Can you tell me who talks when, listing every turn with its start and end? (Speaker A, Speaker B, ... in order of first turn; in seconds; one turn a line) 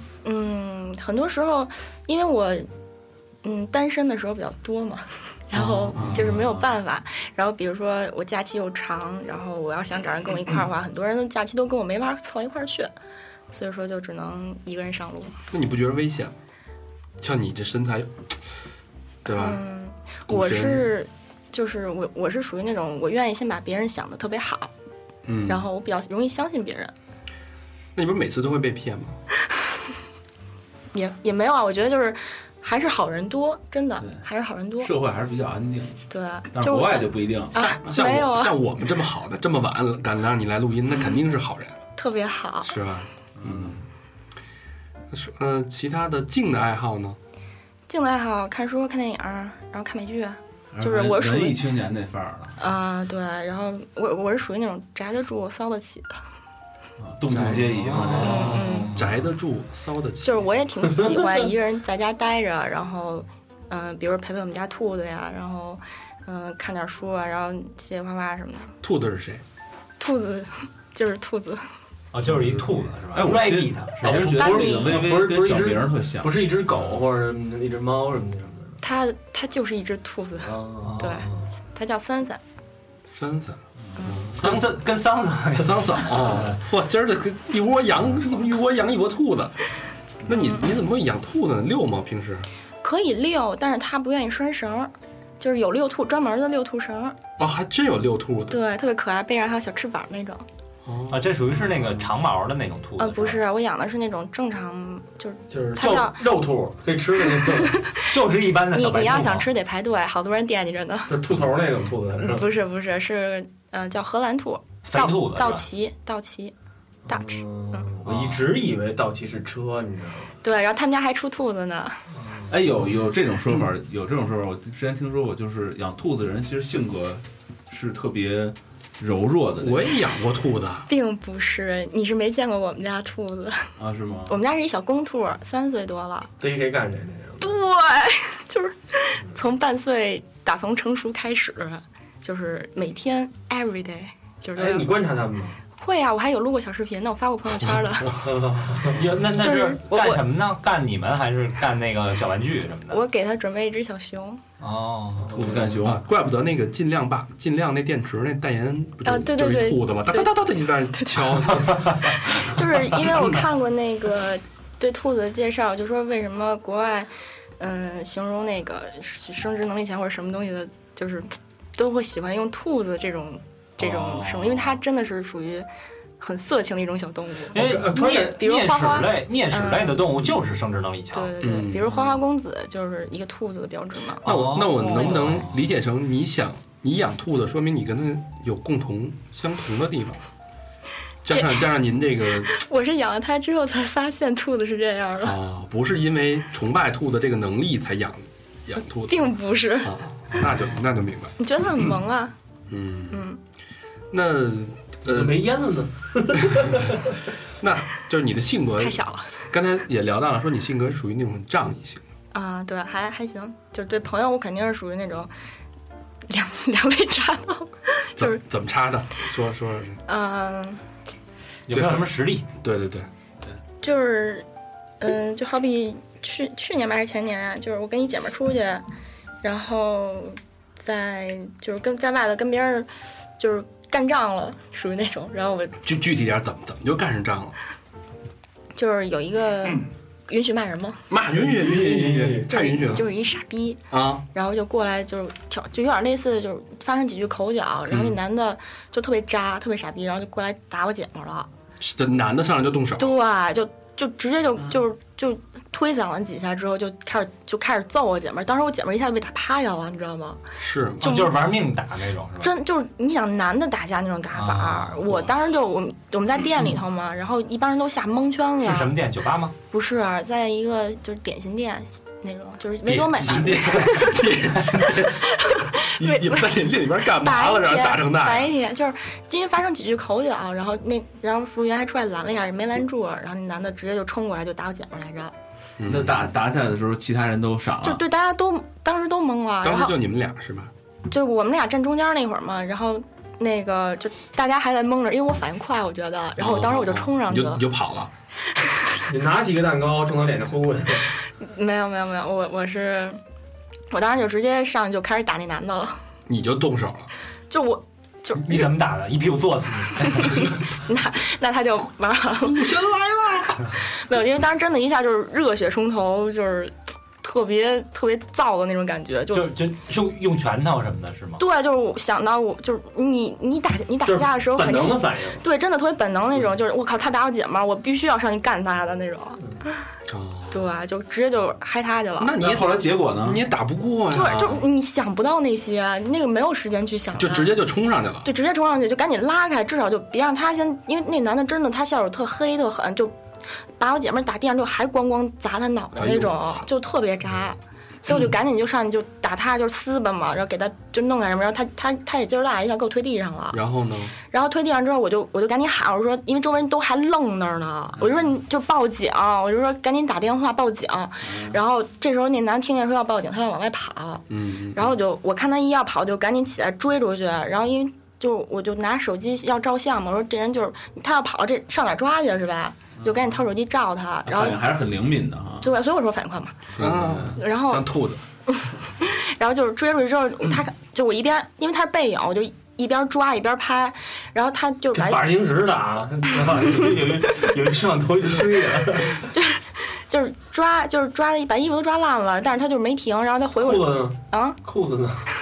Speaker A: 0.2-2.7
Speaker A: 3.4-12.9
Speaker B: 5.9-6.8
Speaker C: 6.0-6.2
Speaker A: 13.5-15.3
Speaker C: 15.5-16.3
Speaker C: 17.2-18.4
Speaker C: 19.2-19.6
Speaker A: 19.3-24.7
Speaker C: 20.3-20.9
Speaker C: 25.3-25.6
Speaker A: 25.5-26.9
Speaker C: 27.9-29.2
Speaker A: 30.9-34.9
Speaker B: 34.8-37.7
Speaker A: 36.1-38.5
Speaker C: 37.6-41.8
Speaker A: 42.0-42.7
Speaker C: 42.6-43.8
Speaker B: 43.4-43.8
Speaker C: 45.1-47.2
Speaker A: 47.9-51.7
Speaker B: 50.7-52.6
Speaker A: 52.6-56.1
Speaker B: 57.0-59.0
Speaker C: 57.3-57.7
Speaker D: 57.5-58.6
Speaker E: 57.9-59.0
Speaker A: 58.1-59.0
Speaker C: 58.9-60.6
Speaker A: 60.2-68.7
Speaker D: 60.9-61.5
Speaker C: 68.8-69.4
Speaker A: 70.0-71.7
Speaker E: 72.1-74.5
Speaker B: 72.3-76.6
Speaker D: 74.0-78.8
Speaker A: 74.4-75.0
Speaker A: 78.8-82.4
Speaker D: 80.4-81.3
Speaker E: 80.8-81.3
Speaker C: 83.1-84.8
Speaker E: 84.3-86.6
Speaker C: 85.5-89.6
Speaker C: 90.3-92.5
Speaker A: 90.3-90.7
Speaker A: 92.8-97.2
Speaker C: 97.4-98.6
Speaker A: 98.5-100.5
Speaker C: 100.8-101.3
Speaker E: 101.1-103.4
Speaker A: 103.0-106.2
Speaker D: 105.5-107.8
Speaker E: 105.8-106.1
Speaker A: 107.4-108.0
Speaker E: 108.1-109.5
Speaker A: 108.7-111.1
Speaker D: 111.1-112.5
Speaker A: 112.2-116.5
Speaker E: 114.8-115.7
Speaker A: 117.1-117.9
Speaker D: 117.1-120.4
Speaker E: 118.1-118.4
Speaker A: 120.4-122.0
Speaker B: 122.5-129.9
Speaker C: 129.6-130.9
Speaker A: 130.9-133.7
Speaker B: 133.8-134.4
Speaker A: 134.3-136.3
Speaker D: 136.4-137.6
Speaker A: 137.4-144.9
Speaker D: 144.6-145.6
Speaker A: 145.8-148.2
Speaker D: 148.2-149.0
Speaker E: 148.9-153.0
Speaker A: 149.4-150.2
Speaker A: 152.9-154.4
Speaker E: 154.6-155.4
Speaker B: 155.3-156.0
Speaker D: 155.3-155.7
Speaker C: 155.8-161.8
Speaker A: 159.1-160.3
Speaker A: 161.0-175.7
Speaker B: 173.8-174.6
Speaker A: 176.2-180.1
Speaker E: 177.5-181.4
Speaker D: 177.6-178.3
Speaker A: 181.1-184.3
Speaker C: 181.4-181.9
Speaker C: 184.2-190.2
Speaker E: 184.2-185.5
Speaker A: 184.8-185.4
Speaker C: 191.2-192.5
Speaker A: 191.3-191.6
Speaker A: 192.4-195.4
Speaker C: 195.2-199.3
Speaker A: 199.1-200.0
Speaker C: 199.8-202.0
Speaker A: 201.4-202.3
Speaker C: 202.7-203.2
Speaker A: 203.1-203.4
Speaker C: 204.1-205.4
Speaker D: 205.1-207.1
Speaker C: 207.6-212.0
Speaker A: 208.8-209.3
Speaker A: 212.3-215.3
Speaker A: 216.3-218.4
Speaker C: 218.2-220.0
Speaker A: 220.1-220.8
Speaker E: 221.7-222.4
Speaker C: 221.7-223.1
Speaker A: 223.8-224.5
Speaker A: 225.0-228.8
Speaker A: 229.4-235.8
Speaker C: 235.8-237.6
Speaker A: 238.8-241.0
Speaker C: 241.1-243.1
Speaker D: 241.4-242.5
Speaker A: 242.5-251.5
Speaker C: 243.9-244.2
Speaker C: 247.9-248.2
Speaker C: 251.8-253.2
Speaker A: 253.0-260.4
Speaker C: 260.6-261.1
Speaker A: 261.0-261.5
Speaker E: 261.0-262.5
Speaker A: 262.4-268.9
Speaker E: 264.3-265.1
Speaker E: 268.6-269.5
Speaker A: 269.7-276.6
Speaker C: 272.9-275.3
Speaker C: 276.0-278.5
Speaker A: 277.1-285.3
Speaker C: 285.8-286.2
Speaker B: 285.9-288.0
Speaker A: 287.8-289.9
Speaker C: 289.6-290.7
Speaker A: 291.1-297.6
Speaker C: 296.4-298.1
Speaker D: 299.1-301.1
Speaker A: 301.4-303.2
Speaker A: 303.9-306.0
Speaker C: 306.3-307.1
Speaker A: 307.5-308.7
Speaker E: 308.4-310.6
Speaker A: 310.2-312.7
Speaker C: 312.4-313.7
Speaker A: 313.9-319.5
Speaker E: 319.3-321.4
Speaker A: 321.4-329.4
Speaker D: 324.0-325.4
Speaker C: 330.1-330.7
Speaker A: 330.5-332.4
Speaker C: 332.2-334.6
Speaker B: 332.4-333.4
Speaker A: 334.1-337.5
Speaker C: 337.1-338.3
Speaker A: 338.2-343.2
Speaker A: 343.8-353.6
Speaker C: 346.0-346.7
Speaker C: 353.5-354.1
Speaker A: 354.3-374.7
Speaker B: 361.2-361.6
Speaker C: 364.3-364.9
Speaker B: 373.0-373.4
Speaker B: 374.2-375.7
Speaker A: 375.6-376.7
Speaker B: 376.8-377.4
Speaker C: 376.8-378.2
Speaker A: 377.3-377.9
Speaker A: 378.5-385.3
Speaker D: 384.9-389.2
Speaker A: 389.2-394.6
Speaker D: 393.6-395.3